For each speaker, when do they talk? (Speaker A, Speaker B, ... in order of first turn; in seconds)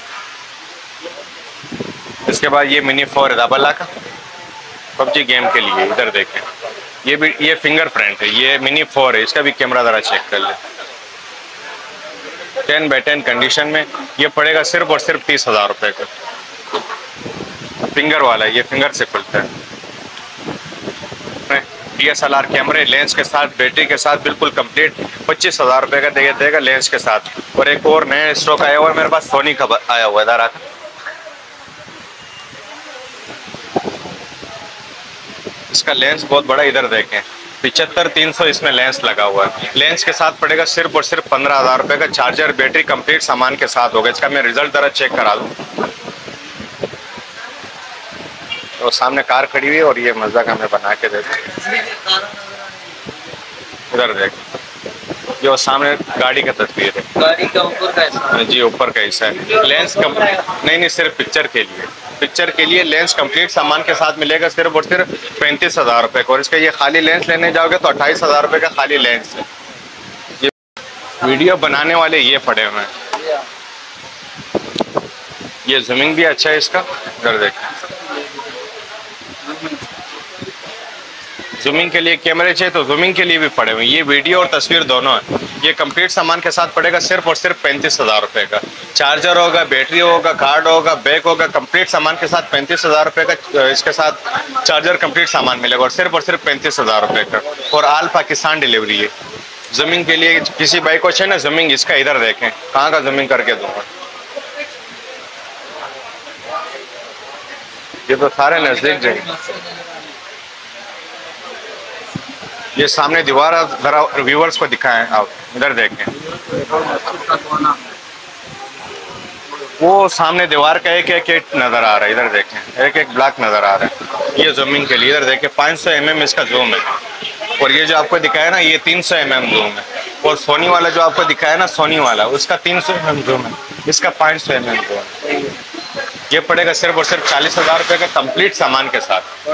Speaker A: 2.2-3.9, 5.0-6.5, 7.0-10.6, 12.6-16.1, 17.9-19.5, 21.5-30.6, 35.7-45.5, 48.8-51.8, 53.9-54.4, 55.4-57.4, 58.1-69.5, 71.2-72.9, 75.7-77.8, 81.6-99.1, 99.7-103.8, 108.1-109.6, 112.8-116.2, 119.8-126.8, 127.6-135.3, 136.3-139.3
Speaker B: 51.9-52.3, 57.2-58.2, 117.1-117.7